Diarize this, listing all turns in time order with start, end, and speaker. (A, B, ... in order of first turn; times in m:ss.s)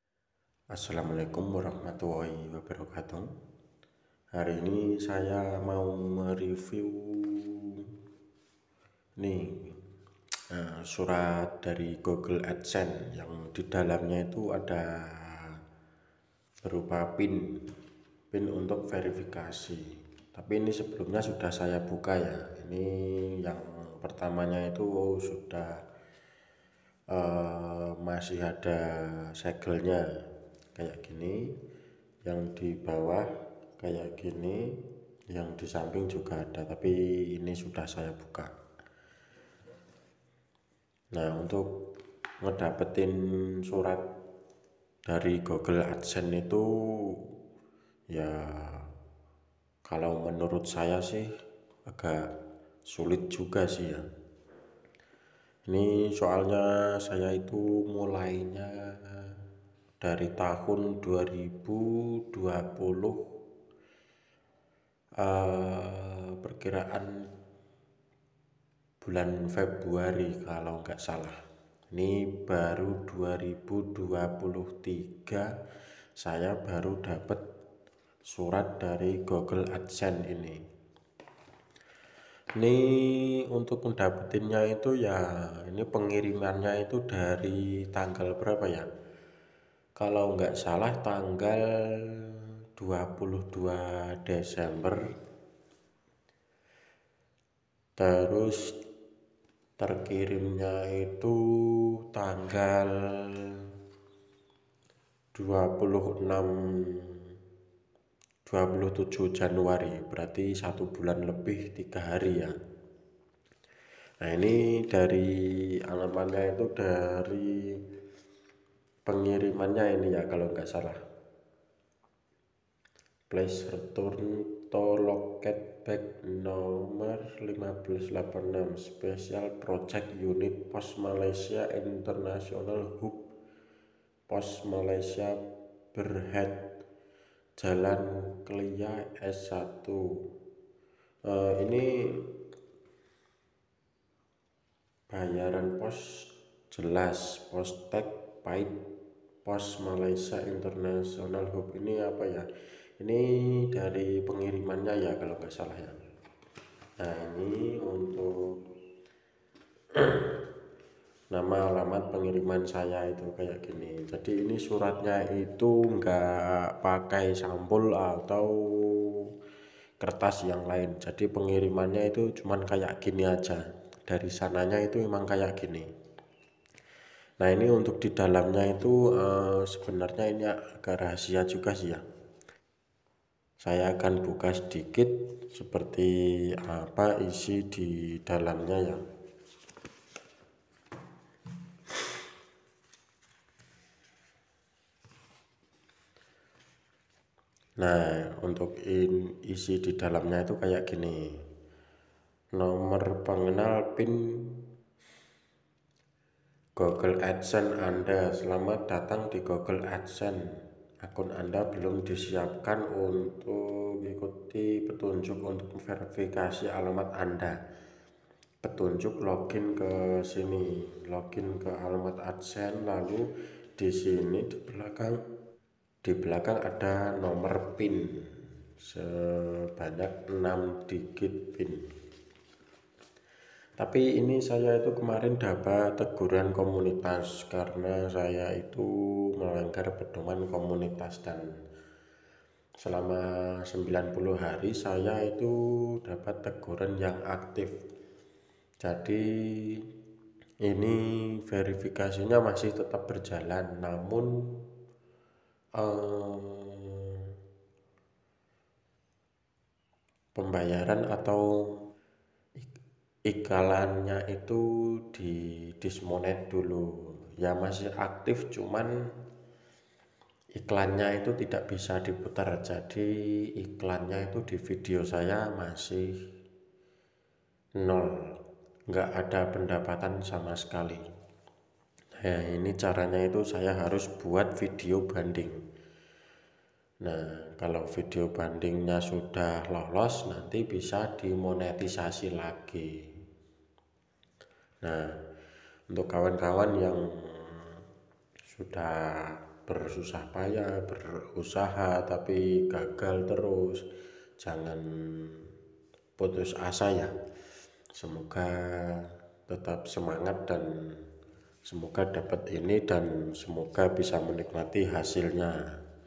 0:00.7-0:03.3 A
0:04.4-0:07.9 A
0:09.2-0:09.8 A
0:10.5-0:15.6 A
0:16.6-0:17.6 A
0:18.3-0:25.8 A
0:27.1-0:30.0 A
0:30.8-0:31.5 A
0:32.3-0:33.3 A
0:33.8-0:34.8 A
0:35.3-0:38.5 A
0:41.1-0:41.8 A
0:42.4-0:44.0 A
0:45.1-0:47.3 A
0:48.1-0:48.9 A
0:49.9-0:51.3 A
0:51.9-0:52.2 A
0:52.9-0:54.0 A
0:55.7-0:59.4 A
1:00.0-1:03.2 A
1:05.2-1:07.3 A
1:09.0-1:11.4 A
1:11.9-1:15.5 A
1:16.2-1:17.4 A
1:18.3-1:20.6 A
1:22.6-1:28.9 A
1:30.0-1:35.0 A
1:38.0-1:38.7 A
1:39.8-1:43.6 A
1:45.4-1:47.3 A
1:48.5-1:52.5 A
1:54.2-1:57.8 A
1:59.1-2:01.0 A
2:03.3-2:13.3 A
2:14.3-2:15.4 A
2:15.9-2:16.7 A
2:17.6-2:20.1 A
2:21.3-2:22.4 A
2:25.1-2:28.8 A
2:29.4-2:32.5 A
2:33.0-2:36.0 A
2:37.0-2:38.4 A
2:40.0-2:40.4 A
2:41.3-2:49.2 A
2:50.0-2:55.9 A
2:57.4-3:02.0 A
3:03.6-3:09.0 A
3:17.8-3:21.4 A
3:22.6-3:24.7 A
3:26.8-3:30.5 A
3:31.0-3:37.6 A
3:38.6-3:43.3 A
3:43.8-3:45.2 A
3:46.0-3:48.1 A
3:48.8-3:51.9 A
3:53.8-4:01.5 A
4:02.8-4:07.8 A
4:08.8-4:09.8 A
4:10.6-4:14.6 A
4:15.8-4:17.3 A
4:20.4-4:21.8 A
4:23.3-4:28.9 A
4:30.6-4:36.2 A
4:37.8-4:38.2 A
4:38.9-4:41.0 A
4:42.2-4:45.6 A
4:47.0-4:53.0 A
4:54.8-4:55.1 A
4:55.9-4:57.8 A
4:58.5-5:03.8 A
5:04.4-5:05.5 A
5:06.2-5:07.1 A
5:08.0-5:11.0 A
5:11.7-5:15.6 A